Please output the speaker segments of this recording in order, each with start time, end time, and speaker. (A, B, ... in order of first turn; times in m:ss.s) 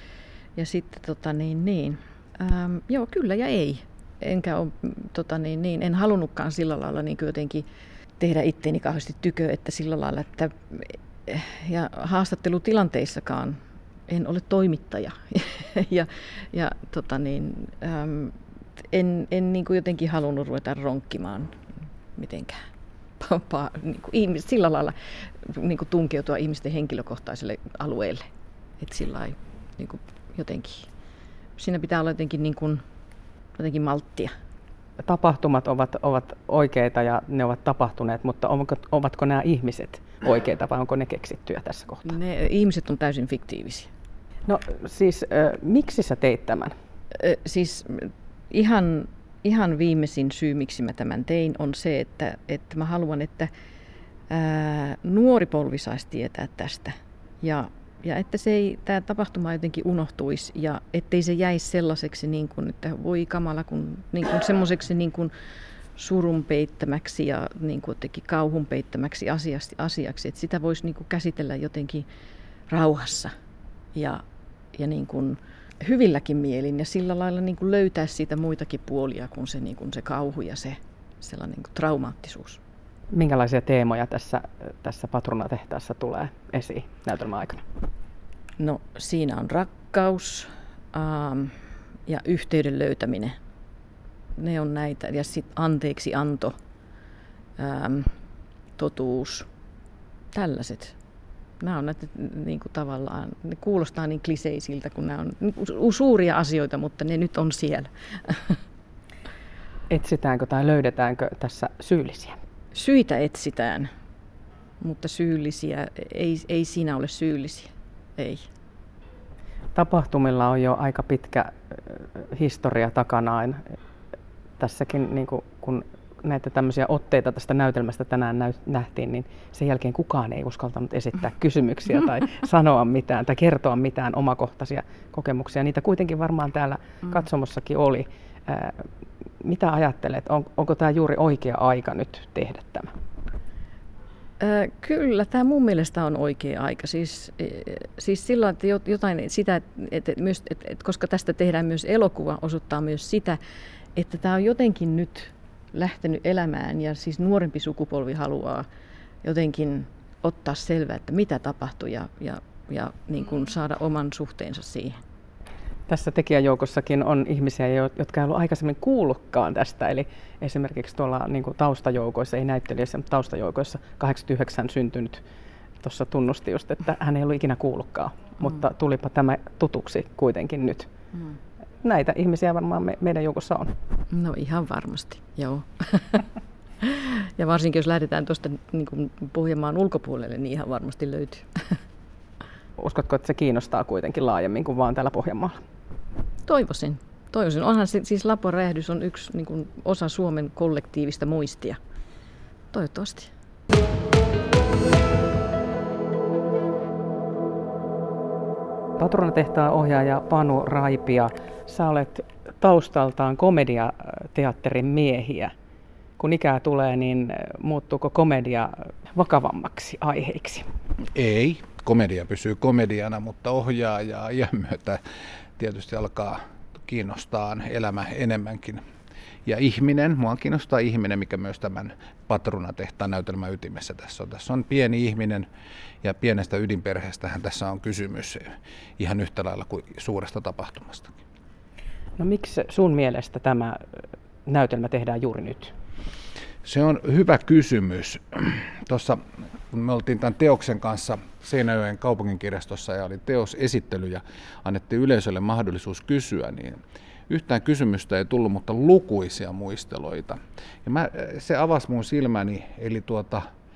0:00.6-0:07.6 A
0:08.2-0:18.3 A
0:18.9-0:21.5 A
0:22.1-0:22.6 A
0:23.2-0:28.2 A
0:28.8-0:30.9 A
0:31.6-0:32.8 A
0:33.6-0:34.3 A
0:35.0-0:42.1 B
0:42.0-0:43.9 A
0:44.4-0:46.7 B
0:47.1-0:53.5 A
0:54.3-1:05.3 A
1:06.0-1:12.0 A
1:12.7-1:13.3 A
1:13.9-1:14.2 A
1:14.7-1:22.6 A
1:23.1-1:27.6 B
1:28.6-1:31.5 A
1:32.0-1:33.4 A
1:34.4-1:36.5 A
1:37.6-1:38.1 A
1:38.8-1:39.5 A
1:40.3-1:40.9 A
1:41.6-1:48.6 A
1:49.9-1:52.4 B
1:52.7-1:53.9 A
1:54.8-1:58.4 A
1:59.7-2:03.6 B
2:04.6-2:18.8 B
2:19.4-2:22.9 B
2:24.4-2:33.4 A
2:33.9-2:38.6 A
2:39.2-2:44.9 A
2:45.9-2:55.2 B
2:55.8-3:00.9 B
3:01.8-3:03.7 B
3:04.1-3:06.2 A
3:06.8-3:11.5 A
3:12.8-3:15.6 B
3:16.4-3:21.8 A
3:22.7-3:23.3 A
3:29.0-3:35.5 B
3:36.2-3:40.6 B
3:41.1-3:45.0 C
3:45.6-3:48.8 C
3:49.4-3:55.5 C
3:56.0-3:58.5 C
3:59.0-4:01.1 C
4:02.2-4:03.8 B
4:04.4-4:05.7 B
4:06.6-4:23.4 C